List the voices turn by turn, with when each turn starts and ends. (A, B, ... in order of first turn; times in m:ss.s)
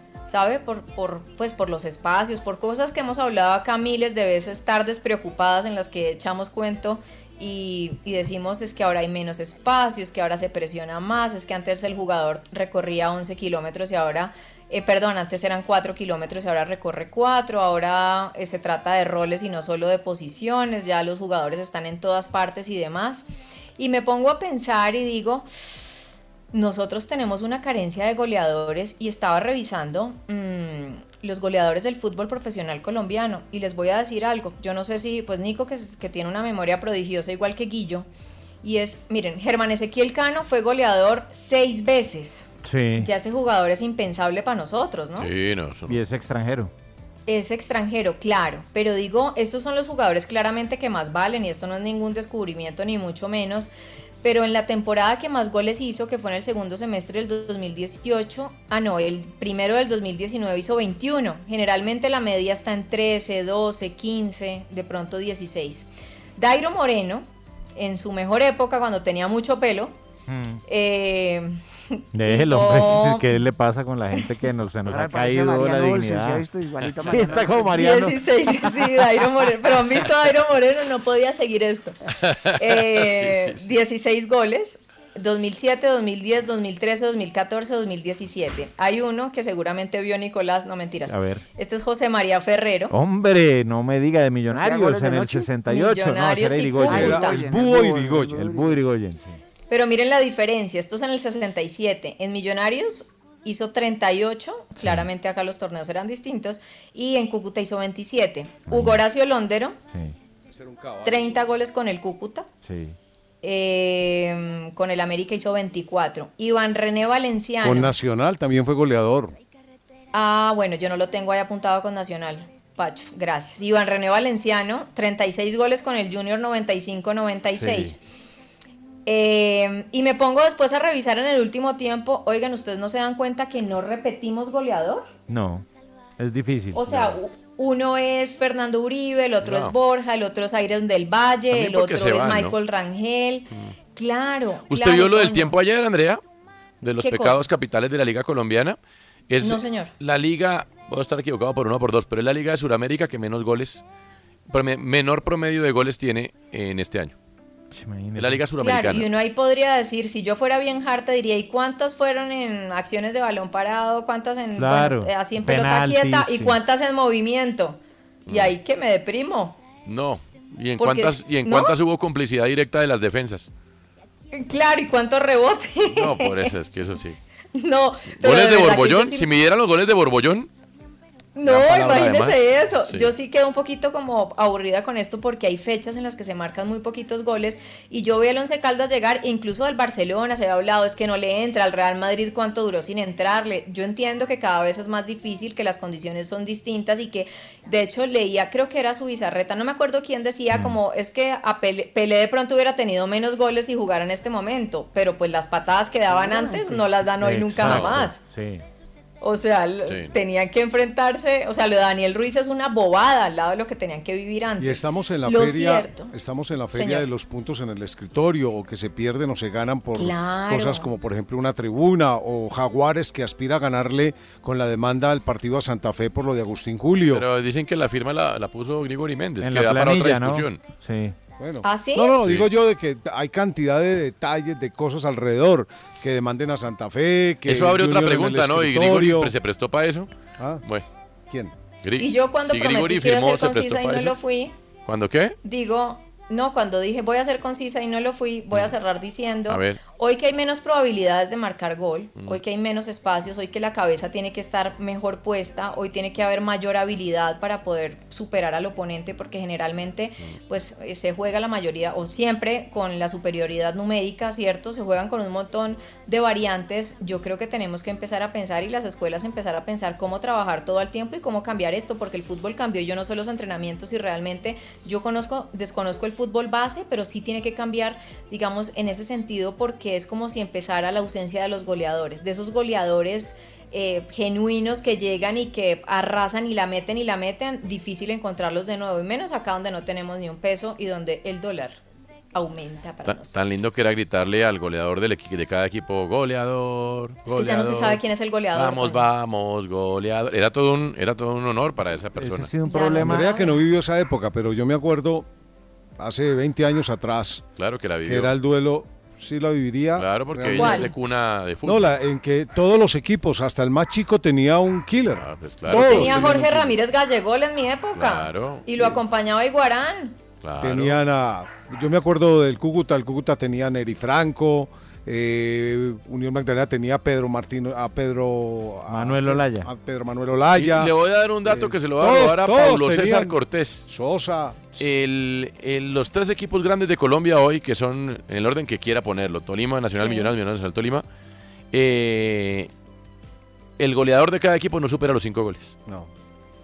0:00.3-0:25.9 A
0:26.5-0:38.1 A
0:38.6-0:45.3 A
0:42.6-0:43.1 B
0:45.2-0:46.0 C
0:45.9-0:46.7 B
0:47.3-0:53.7 A
0:54.2-1:07.2 A
1:07.8-1:09.9 A
1:10.3-1:10.6 B
1:10.7-1:13.3 A
1:12.1-1:16.5 B
1:14.9-1:17.8 D
1:17.0-1:19.1 B
1:17.7-1:22.0 A
1:22.2-1:23.7 C
1:22.6-1:32.9 A
1:31.1-1:31.4 B
1:32.9-1:37.3 B
1:34.5-1:35.5 D
1:35.6-1:37.4 A
1:36.8-1:38.8 D
1:36.8-1:38.4 E
1:38.4-1:39.4 B
1:39.7-1:49.8 A
1:44.8-1:45.1 B
1:48.7-1:49.0 B
1:51.0-1:52.5 A
1:52.6-1:53.0 B
1:53.4-1:57.9 A
1:57.6-1:59.4 E
2:00.1-2:08.0 A
2:07.6-2:08.0 B
2:09.1-2:15.1 A
2:15.3-2:15.6 B
2:16.2-2:17.2 B
2:16.7-2:25.6 A
2:19.4-2:19.7 C
2:21.5-2:22.6 C
2:24.7-2:26.2 C
2:26.8-2:28.8 C
2:27.0-2:27.4 A
2:29.3-2:33.8 C
2:29.4-2:29.9 A
2:34.5-2:37.2 C
2:37.7-2:38.4 B
2:38.2-2:39.1 C
2:38.6-2:49.6 A
2:44.6-2:46.6 B
2:48.3-2:48.6 C
2:49.9-2:53.5 C
2:50.8-2:51.8 A
2:54.3-2:56.5 A
2:55.8-2:57.2 C
2:57.6-2:59.3 A
2:58.2-3:00.5 C
3:01.4-3:28.2 A
3:01.4-3:03.1 C
3:20.5-3:20.8 B
3:26.1-3:26.8 D
3:27.2-3:28.6 B
3:27.6-3:28.0 C
3:29.2-3:36.1 A
3:29.9-3:30.2 C
3:34.6-3:47.2 E
3:36.7-3:37.1 A
3:40.0-3:40.9 A
3:47.1-3:50.6 C
3:49.4-3:51.2 B
3:51.4-3:59.3 E
3:51.6-3:52.2 A
3:52.2-3:52.5 C
3:57.5-4:00.1 C
4:01.8-4:04.2 C
4:02.0-4:04.5 A
4:04.9-4:05.4 C
4:05.4-4:51.8 A
4:09.5-4:09.8 C
4:52.4-4:53.4 A
4:53.0-4:58.0 C
4:57.2-4:59.0 A
4:58.5-5:02.5 C
5:02.2-5:03.4 B
5:02.6-5:03.6 A
5:03.0-5:05.3 E
5:06.0-5:07.4 E
5:07.6-5:08.4 C
5:08.0-5:10.9 E
5:10.0-5:12.0 C
5:10.6-5:10.9 A
5:11.6-5:16.8 E
5:15.1-5:16.3 C
5:15.7-5:20.2 A
5:18.0-5:18.7 C
5:20.4-5:21.0 C
5:20.6-5:30.9 E
5:28.9-5:29.7 B
5:30.6-5:33.8 C
5:31.4-5:34.8 E
5:34.8-5:41.0 C
5:40.0-5:40.3 A
5:41.7-5:42.7 C
5:43.8-5:45.7 C